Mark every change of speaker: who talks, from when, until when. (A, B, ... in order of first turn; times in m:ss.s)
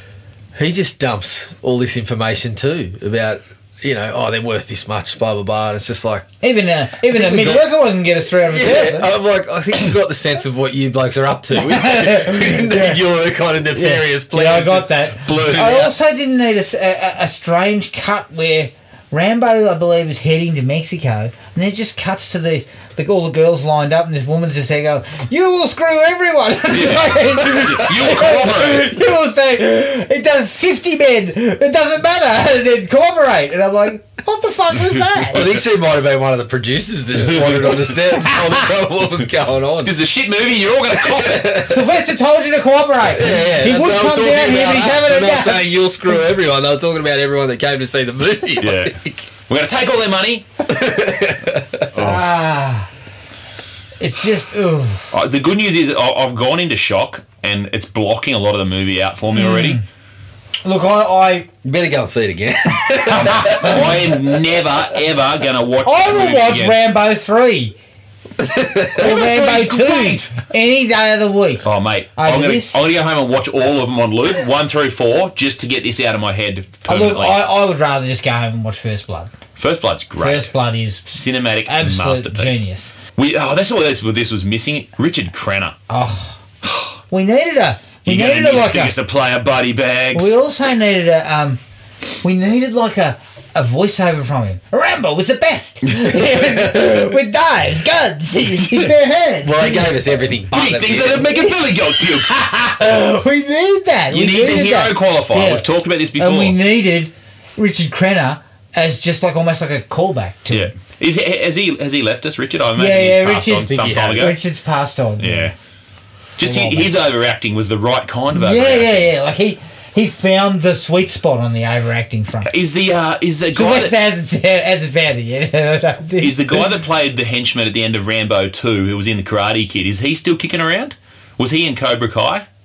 0:00.6-0:06.3 A
0:06.4-0:09.1 B
0:07.1-0:07.7 A
0:08.4-0:15.9 A
0:11.5-0:13.1 B
0:13.7-0:35.5 B
0:26.7-0:28.9 C
0:35.3-0:39.9 A
0:37.3-0:37.9 C
0:39.8-0:41.6 C
0:40.9-0:41.9 A
0:41.6-0:45.7 B
0:43.0-0:49.2 A
0:48.6-0:49.0 C
0:49.5-0:50.4 C
0:50.7-0:51.9 A
0:51.9-0:52.2 C
0:52.0-0:52.9 B
0:54.0-0:55.1 B
0:55.1-0:59.8 C
0:59.3-0:59.8 B
1:00.6-1:01.5 B
1:01.6-1:04.2 A
1:03.0-1:03.7 B
1:03.2-1:06.8 C
1:05.8-1:07.8 B
1:08.4-1:09.1 A
1:09.0-1:11.6 B
1:09.0-1:10.3 C
1:11.6-1:17.4 C
1:12.2-1:12.8 B
1:16.9-1:19.3 B
1:19.6-1:20.5 C
1:20.2-1:21.0 B
1:21.0-1:22.6 C
1:21.6-1:22.9 B
1:23.2-1:25.8 C
1:25.9-1:26.4 B
1:27.1-1:28.9 B
1:28.0-1:30.4 C
1:30.1-1:31.6 B
1:32.2-1:39.9 B
1:39.4-1:41.5 A
1:40.5-1:42.4 C
1:41.4-1:45.6 B
1:44.1-1:46.6 C
1:46.2-1:50.7 B
1:50.5-1:54.4 C
1:52.8-1:55.5 B
1:53.7-1:54.4 A
1:55.2-1:55.5 C
1:56.4-1:59.1 C
1:56.4-1:56.9 B
1:58.3-2:02.5 B
2:02.4-2:04.0 C
2:03.5-2:06.7 B
2:06.2-2:12.4 C